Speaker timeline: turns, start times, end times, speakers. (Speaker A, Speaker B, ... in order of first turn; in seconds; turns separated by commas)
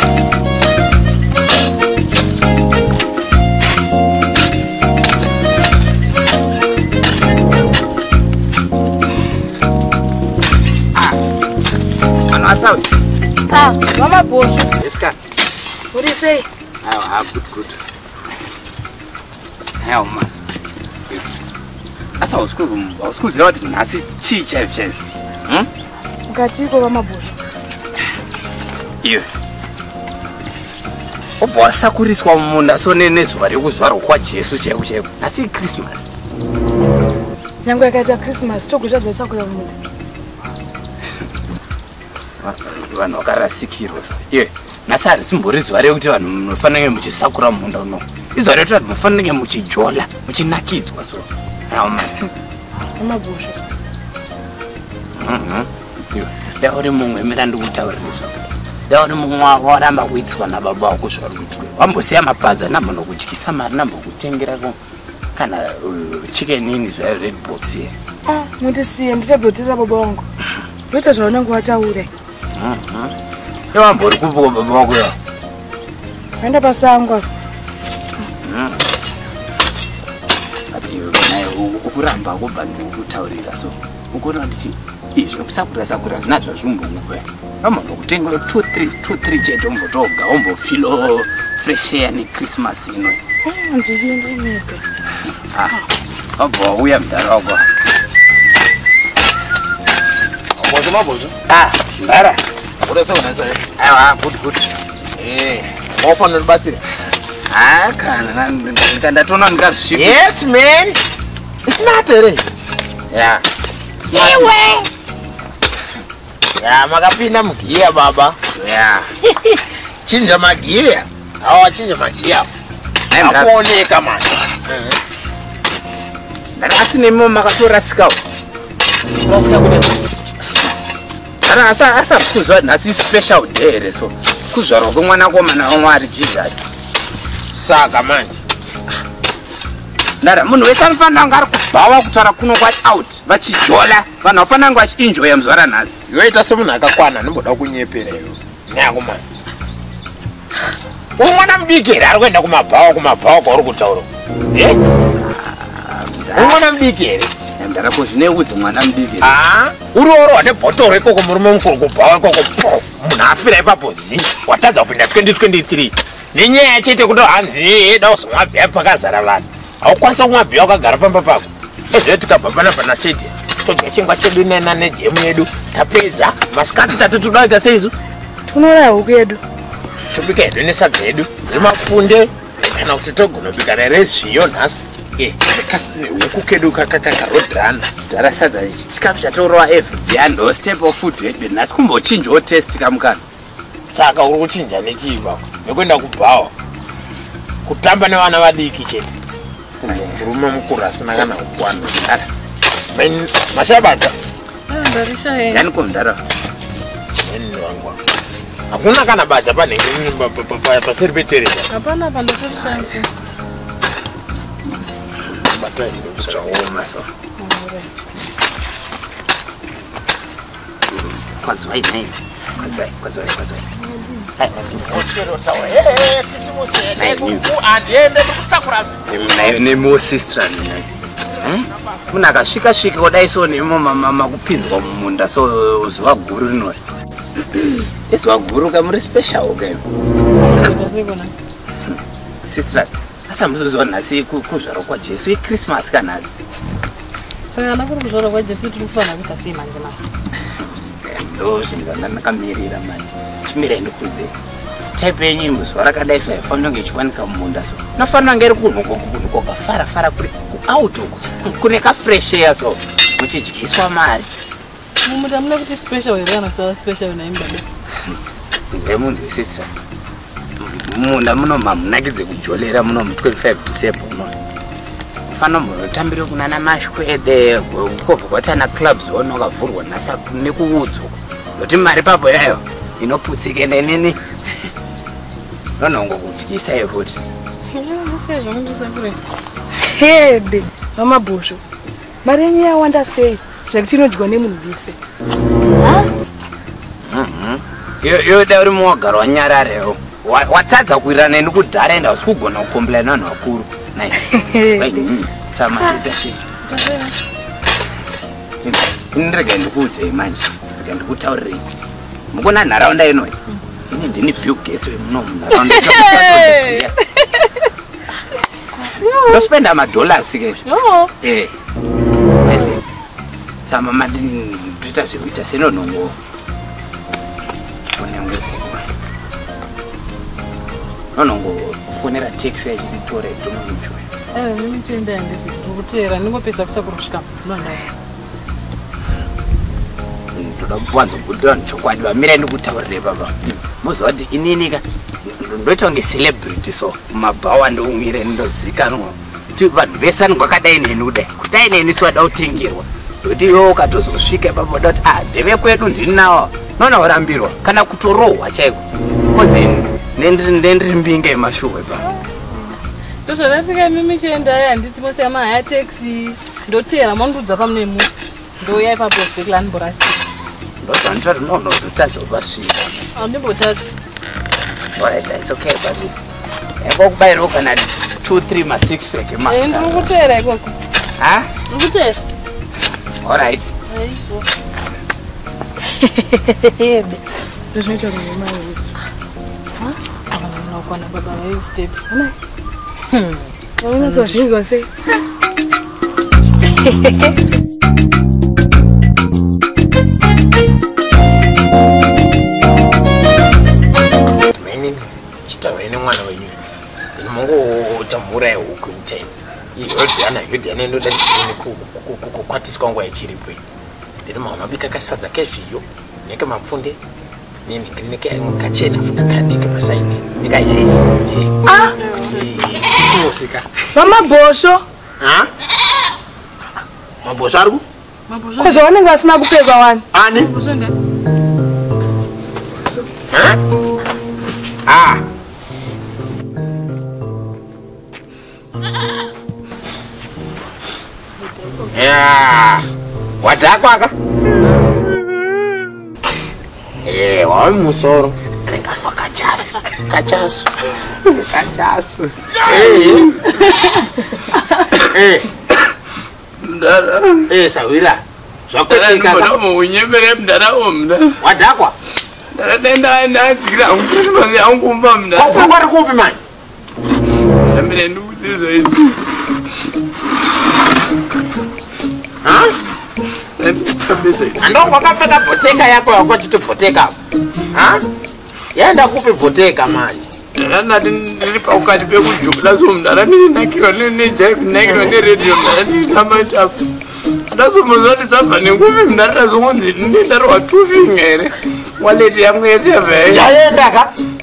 Speaker A: 12.3-12.9, Speaker B: 13.5-14.7, Speaker A: 14.8-15.2, Speaker B: 15.9-16.4, Speaker A: 16.8-17.8, Speaker A: 19.8-20.3, Speaker A: 22.2-25.7, Speaker B: 26.3-27.4, Speaker A: 31.4-36.1, Speaker B: 37.6-39.7, Speaker A: 42.4-52.1, Speaker B: 53.0-53.6, Speaker A: 55.2-64.8, Speaker A: 65.4-67.9, Speaker B: 68.3-70.2, Speaker B: 70.9-72.1, Speaker A: 72.6-73.1, Speaker A: 73.7-75.2, Speaker B: 76.4-77.2, Speaker A: 78.5-78.8, Speaker A: 80.7-93.2, Speaker B: 93.5-94.8, Speaker A: 96.4-97.6, Speaker C: 100.6-101.3, Speaker A: 101.5-102.4, Speaker C: 102.8-103.7, Speaker A: 103.8-104.7, Speaker C: 105.2-106.8, Speaker A: 107.5-110.2, Speaker C: 109.9-111.0, Speaker C: 111.7-112.4, Speaker A: 113.1-113.4, Speaker A: 114.0-114.6, Speaker C: 114.1-114.9, Speaker C: 116.6-118.4, Speaker A: 118.5-119.1, Speaker C: 120.0-122.5, Speaker A: 123.1-123.5, Speaker C: 123.2-125.0, Speaker A: 126.6-128.2, Speaker C: 129.2-130.0, Speaker A: 131.4-136.7, Speaker C: 137.5-138.4, Speaker A: 140.2-146.0, Speaker C: 146.1-149.2, Speaker C: 151.2-154.8, Speaker A: 155.2-156.6, Speaker C: 156.3-157.3, Speaker A: 157.6-159.4, Speaker C: 159.2-177.9, Speaker B: 178.5-179.4, Speaker C: 180.1-187.9, Speaker A: 188.1-193.2, Speaker C: 193.9-196.5, Speaker C: 197.7-199.1, Speaker A: 199.8-200.2, Speaker C: 199.8-201.9, Speaker A: 201.7-202.3, Speaker C: 202.9-204.1, Speaker D: 204.7-205.7, Speaker A: 205.5-206.2, Speaker C: 207.2-208.0, Speaker C: 208.7-211.7, Speaker D: 211.7-213.1, Speaker A: 212.6-212.9, Speaker C: 215.4-216.5, Speaker A: 216.2-217.1, Speaker A: 220.9-223.7, Speaker A: 224.4-224.8, Speaker C: 224.6-229.6, Speaker A: 227.0-227.4, Speaker A: 229.1-230.9, Speaker A: 231.4-236.8, Speaker A: 237.6-239.8, Speaker D: 240.4-241.4, Speaker A: 242.5-246.3, Speaker D: 247.5-250.1, Speaker A: 251.0-254.3, Speaker A: 255.0-264.3, Speaker D: 265.0-267.7, Speaker A: 268.7-269.7, Speaker A: 270.6-274.3, Speaker A: 275.3-284.2, Speaker A: 285.8-287.2, Speaker D: 287.7-289.2, Speaker B: 289.9-291.6, Speaker B: 292.2-294.9, Speaker A: 297.1-306.4, Speaker B: 304.4-304.9, Speaker D: 306.6-307.1, Speaker A: 308.6-311.6, Speaker A: 312.3-313.4, Speaker A: 313.9-316.9, Speaker D: 318.9-319.4, Speaker A: 319.3-320.6, Speaker D: 320.6-321.1, Speaker A: 321.2-321.5, Speaker A: 322.4-322.8, Speaker A: 323.7-326.1, Speaker A: 328.0-328.9, Speaker A: 331.1-334.0, Speaker D: 334.4-337.9, Speaker A: 340.4-362.1, Speaker D: 363.2-370.2, Speaker A: 370.8-373.1, Speaker D: 373.1-373.9, Speaker A: 375.0-376.1, Speaker A: 376.8-380.1, Speaker D: 379.5-380.8, Speaker A: 381.2-381.5, Speaker D: 381.7-382.2, Speaker A: 383.2-383.7, Speaker D: 383.9-384.5, Speaker B: 386.4-387.2, Speaker B: 387.7-388.8, Speaker D: 390.3-392.0, Speaker D: 393.1-393.4, Speaker B: 393.8-394.9, Speaker D: 394.0-394.4, Speaker C: 404.5-406.6, Speaker C: 407.2-413.6, Speaker C: 414.3-417.0, Speaker C: 417.7-421.6, Speaker B: 421.7-421.9, Speaker D: 421.7-422.7, Speaker C: 422.2-423.7, Speaker B: 423.9-424.8, Speaker C: 425.2-425.5, Speaker C: 427.2-427.8, Speaker D: 428.3-428.9, Speaker B: 428.6-430.0, Speaker C: 430.1-430.5, Speaker D: 430.4-430.9, Speaker C: 433.3-433.6, Speaker C: 434.9-435.2, Speaker C: 441.9-442.9, Speaker C: 443.4-444.1, Speaker C: 447.1-450.7, Speaker E: 451.4-453.6, Speaker C: 452.5-453.3, Speaker C: 455.1-455.5, Speaker E: 456.6-457.5, Speaker C: 457.5-459.5, Speaker E: 458.9-461.4, Speaker C: 461.4-461.9, Speaker E: 462.6-465.7, Speaker C: 465.4-466.4, Speaker E: 467.7-469.2, Speaker C: 472.4-472.7, Speaker E: 473.6-474.8, Speaker C: 474.6-477.2, Speaker C: 477.7-478.0, Speaker C: 478.7-480.3, Speaker E: 480.6-486.8, Speaker C: 484.9-485.2, Speaker E: 487.5-493.5, Speaker C: 493.3-494.1